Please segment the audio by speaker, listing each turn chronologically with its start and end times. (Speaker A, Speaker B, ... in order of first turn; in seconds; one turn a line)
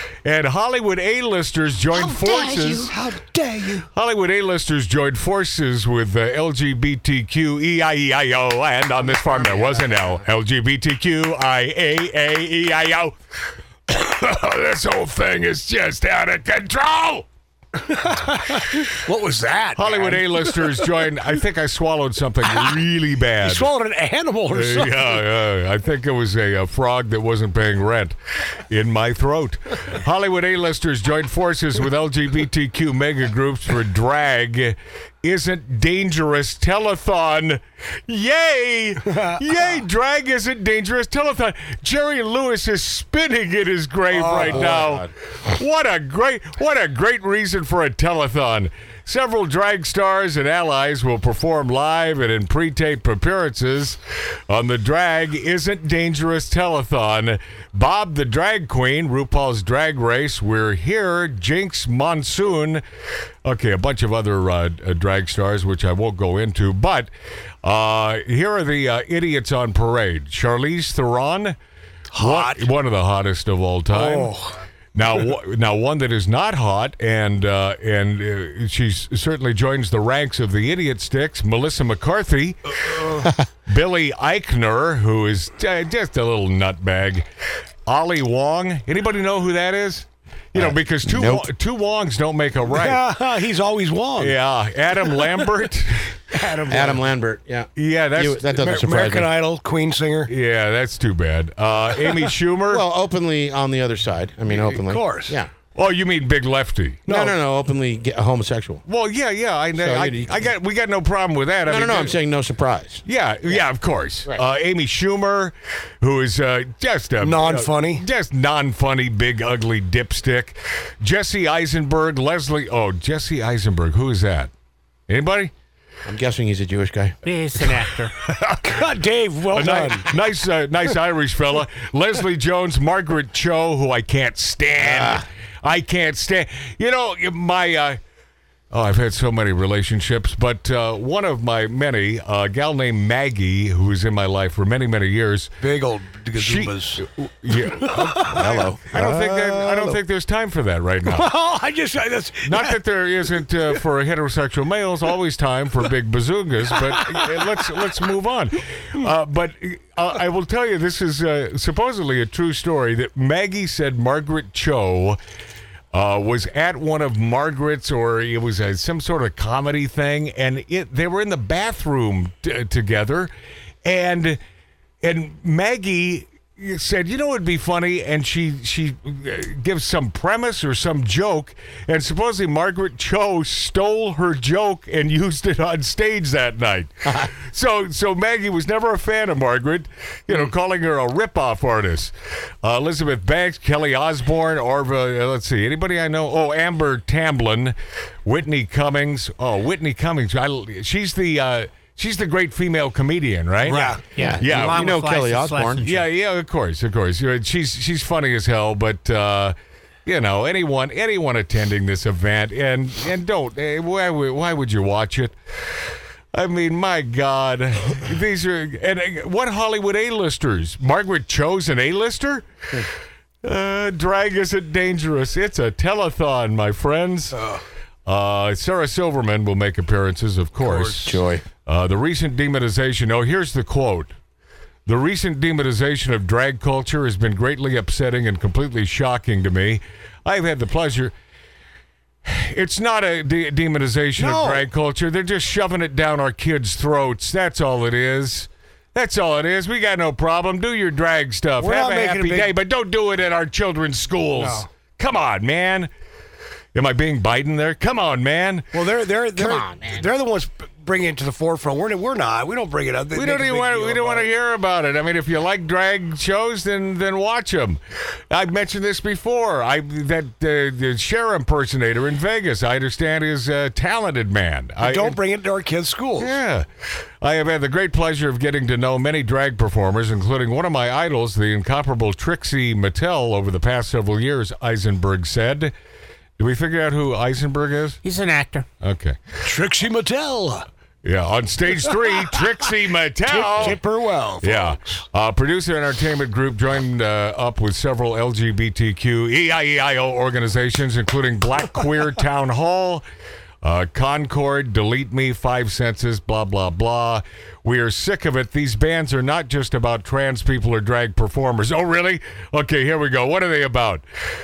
Speaker A: 0.2-2.9
Speaker B: 1.9-3.9
Speaker A: 3.9-13.1
Speaker C: 9.0-10.2
Speaker A: 13.9-17.3
Speaker B: 17.8-21.1
Speaker A: 19.8-23.7
Speaker B: 22.4-22.8
Speaker B: 23.4-25.3
Speaker A: 24.5-62.8
Speaker B: 39.0-39.6
Speaker B: 44.1-44.8
Speaker C: 44.3-45.1
Speaker A: 63.5-67.1
Speaker A: 67.6-71.6
Speaker B: 72.1-72.7
Speaker A: 72.2-74.3
Speaker B: 73.9-74.6
Speaker A: 75.0-83.0
Speaker B: 82.9-83.3
Speaker A: 83.7-87.2
Speaker A: 87.9-93.0
Speaker C: 90.5-91.5
Speaker B: 92.7-94.4
Speaker A: 94.2-96.2
Speaker B: 96.3-97.0
Speaker C: 96.7-99.3
Speaker A: 97.8-98.4
Speaker B: 98.6-100.3
Speaker A: 100.3-102.8
Speaker C: 102.7-105.5
Speaker B: 104.5-105.4
Speaker A: 105.8-107.1
Speaker B: 107.1-107.4
Speaker C: 107.1-108.8
Speaker A: 108.9-112.2
Speaker C: 109.8-110.5
Speaker C: 111.7-113.6
Speaker A: 113.0-124.5
Speaker B: 117.2-118.0
Speaker A: 125.1-125.5
Speaker C: 126.0-127.2
Speaker D: 127.2-128.1
Speaker B: 128.3-130.2
Speaker A: 129.5-138.0
Speaker C: 134.8-135.2
Speaker A: 138.7-145.5
Speaker B: 145.6-150.0
Speaker A: 146.4-151.3
Speaker C: 148.3-148.9
Speaker B: 151.1-152.8
Speaker A: 152.4-165.2
Speaker B: 153.5-153.8
Speaker B: 156.7-157.9
Speaker A: 165.9-173.3
Speaker A: 173.8-174.4
Speaker A: 175.0-192.1
Speaker A: 192.6-204.8
Speaker B: 203.6-204.0
Speaker D: 204.2-206.0
Speaker C: 204.2-205.9
Speaker A: 205.8-209.6
Speaker A: 210.1-215.3
Speaker A: 216.3-222.4
Speaker A: 223.4-227.4
Speaker B: 227.3-227.6
Speaker A: 228.1-234.1
Speaker B: 230.6-231.2
Speaker C: 231.0-231.4
Speaker A: 234.9-241.1
Speaker A: 242.2-255.9
Speaker B: 244.2-244.7
Speaker B: 251.6-252.5
Speaker B: 254.4-254.7
Speaker A: 256.8-258.7
Speaker B: 258.7-264.3
Speaker A: 263.1-275.2
Speaker B: 274.8-276.4
Speaker A: 276.2-276.7
Speaker A: 277.2-285.7
Speaker A: 286.4-288.0
Speaker D: 288.0-288.7
Speaker A: 288.8-289.2
Speaker B: 289.4-290.7
Speaker A: 291.0-293.8
Speaker B: 293.2-295.0
Speaker A: 294.4-303.0
Speaker A: 303.6-314.0